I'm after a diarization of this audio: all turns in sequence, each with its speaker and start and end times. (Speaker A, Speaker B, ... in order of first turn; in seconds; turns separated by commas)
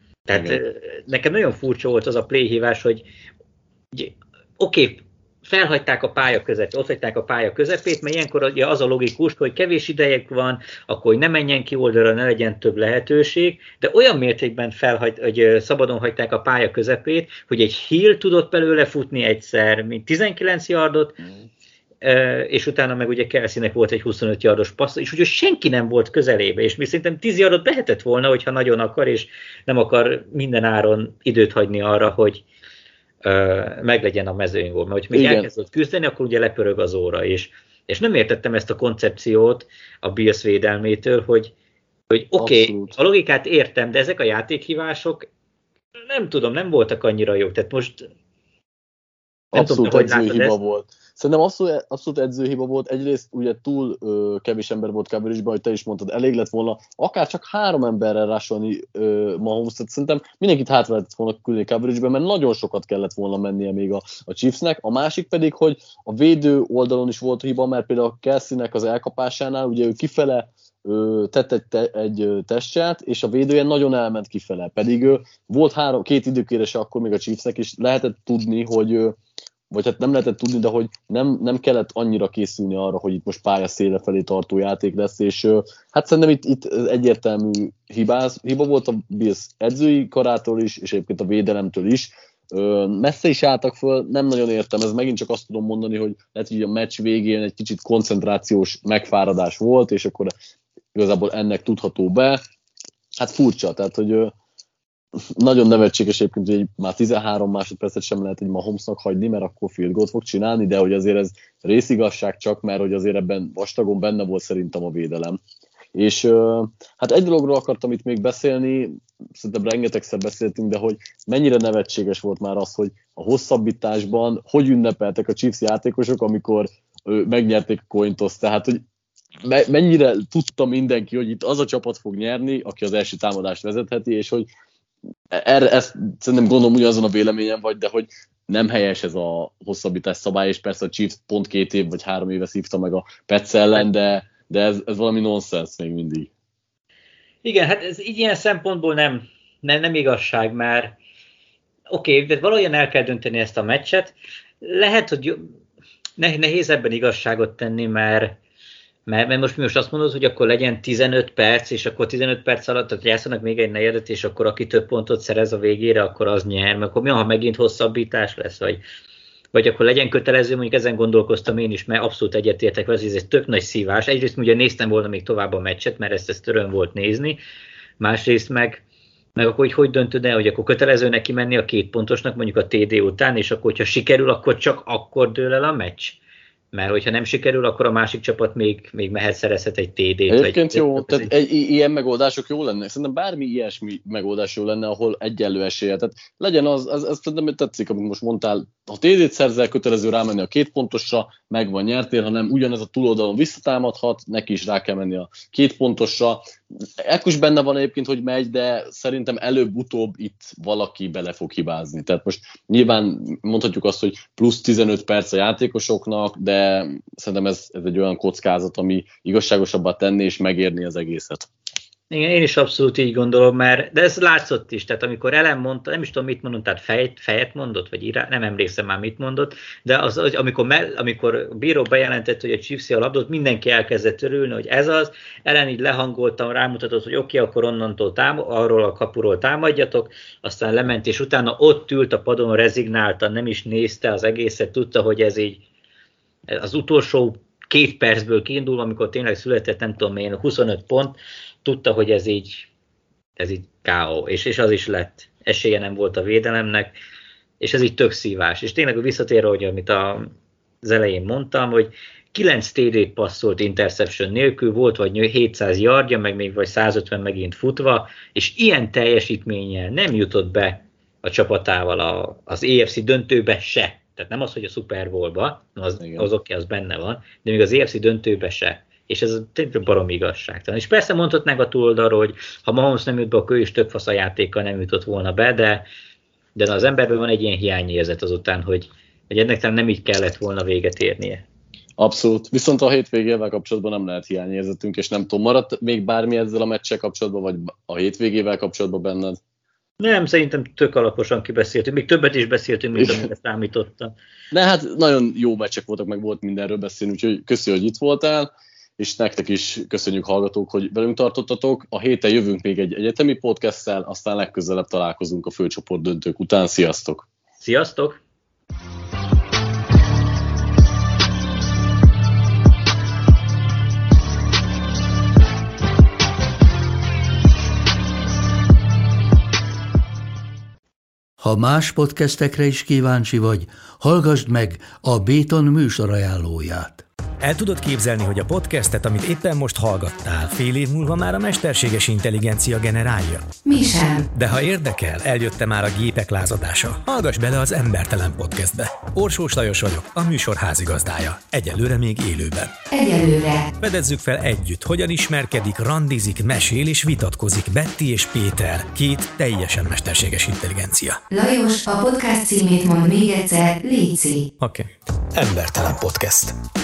Speaker A: 0.3-3.0, Speaker A: 3.9-21.2, Speaker A: 22.0-32.4, Speaker A: 33.2-41.5, Speaker B: 35.1-35.5, Speaker A: 42.1-45.3, Speaker B: 42.4-42.9, Speaker A: 46.0-48.1, Speaker B: 49.5-79.2, Speaker A: 49.5-50.6, Speaker B: 79.7-100.3, Speaker B: 100.9-102.4, Speaker B: 103.1-104.3, Speaker B: 105.2-115.4, Speaker B: 115.9-128.8, Speaker B: 129.4-134.5, Speaker B: 135.3-146.3, Speaker A: 147.4-150.9, Speaker A: 151.9-155.4, Speaker A: 156.2-158.3, Speaker A: 159.1-168.8, Speaker A: 169.5-177.4, Speaker A: 178.0-178.8, Speaker A: 179.3-186.2, Speaker A: 186.7-191.3, Speaker B: 190.3-206.4, Speaker B: 207.0-221.5, Speaker A: 222.1-245.6, Speaker A: 246.5-252.7, Speaker A: 253.4-256.9, Speaker A: 257.6-260.3, Speaker A: 260.8-285.9, Speaker B: 276.0-276.3, Speaker A: 286.6-291.4, Speaker B: 292.0-299.4, Speaker A: 300.0-304.1, Speaker B: 302.9-303.2, Speaker B: 304.5-317.3, Speaker A: 317.6-318.2, Speaker C: 331.4-337.0, Speaker D: 337.4-343.5, Speaker E: 343.6-344.2, Speaker D: 344.3-352.7, Speaker E: 352.9-353.7, Speaker D: 353.8-361.2, Speaker E: 361.3-364.5, Speaker D: 364.6-366.6